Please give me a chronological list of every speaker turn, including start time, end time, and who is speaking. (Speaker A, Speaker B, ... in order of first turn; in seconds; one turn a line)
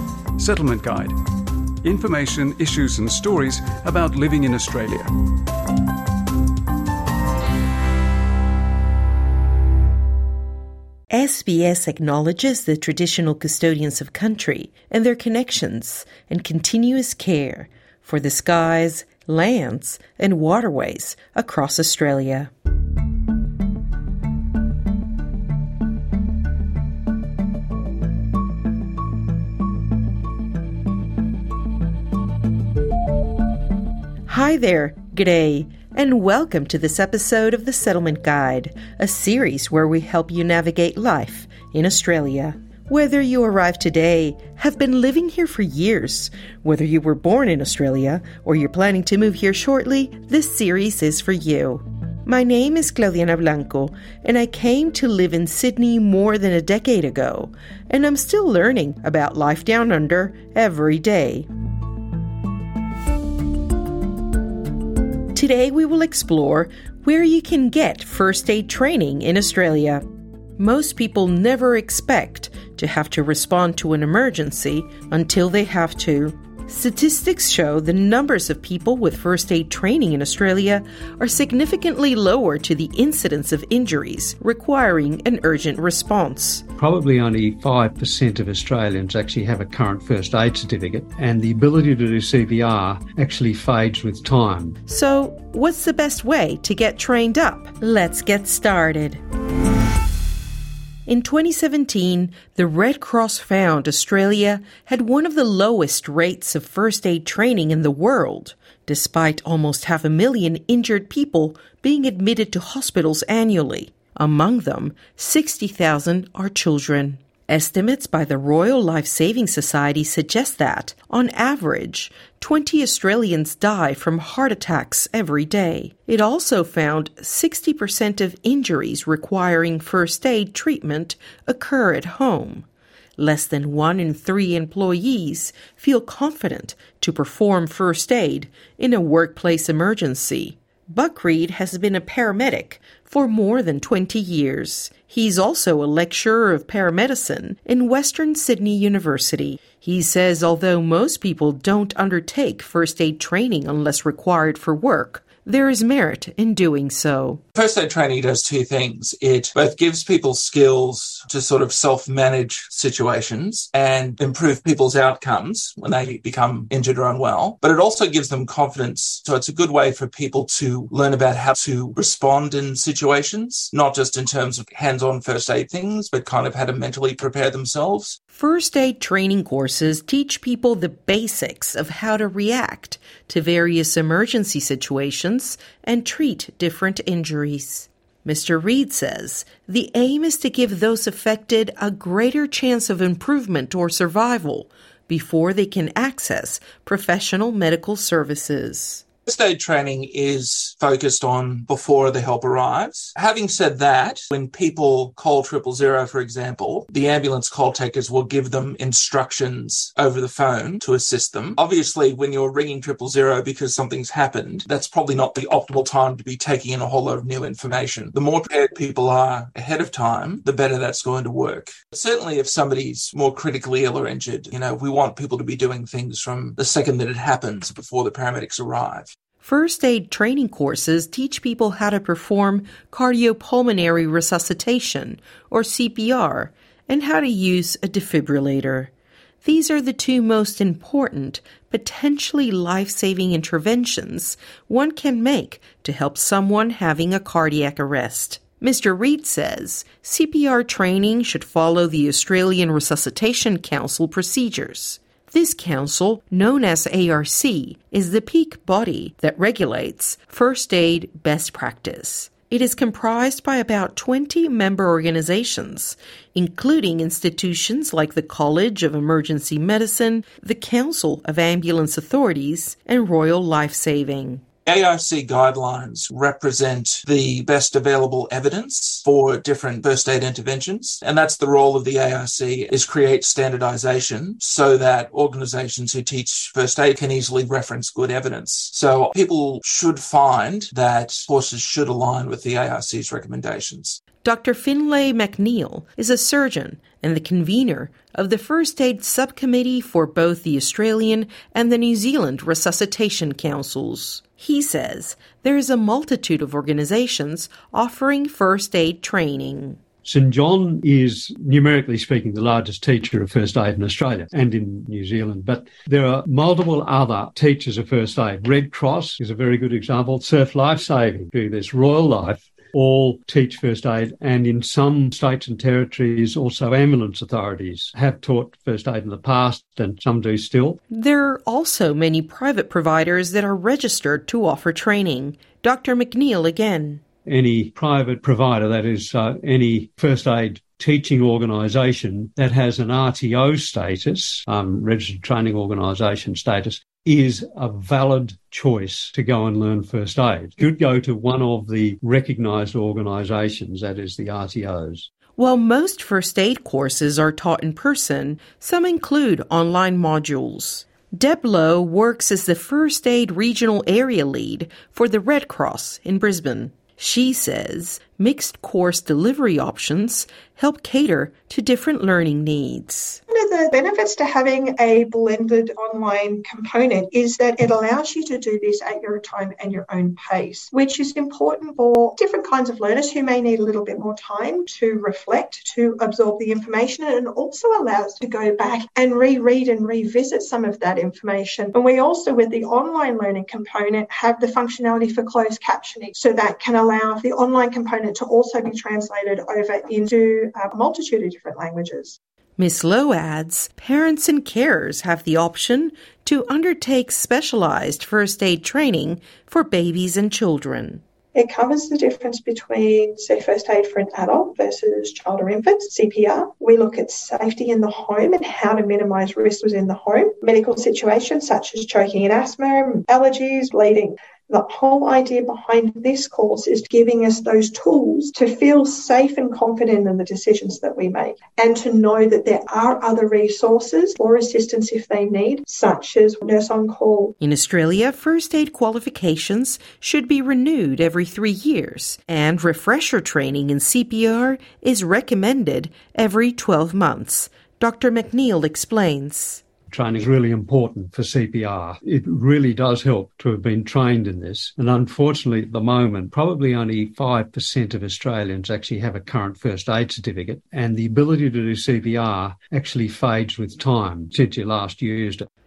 Speaker A: 0.4-5.1
Speaker B: 11.1-22.5
Speaker B: 34.3-61.5
Speaker B: 65.3-70.0
Speaker B: 70.6-86.7
Speaker C: 86.8-94.8
Speaker B: 94.9-99.2
Speaker B: 101.1-132.7
Speaker B: 133.2-157.4
Speaker D: 157.6-178.2
Speaker B: 178.3-199.0
Speaker D: 199.3-229.1
Speaker B: 229.4-238.9
Speaker B: 239.4-274.4
Speaker D: 274.7-294.0
Speaker B: 294.2-309.8
Speaker C: 310.1-330.8
Speaker B: 330.9-337.0
Speaker C: 337.3-355.1
Speaker B: 355.4-373.2
Speaker E: 373.3-402.2
Speaker B: 402.6-411.0
Speaker E: 411.4-437.3
Speaker B: 437.4-449.6
Speaker C: 449.9-465.5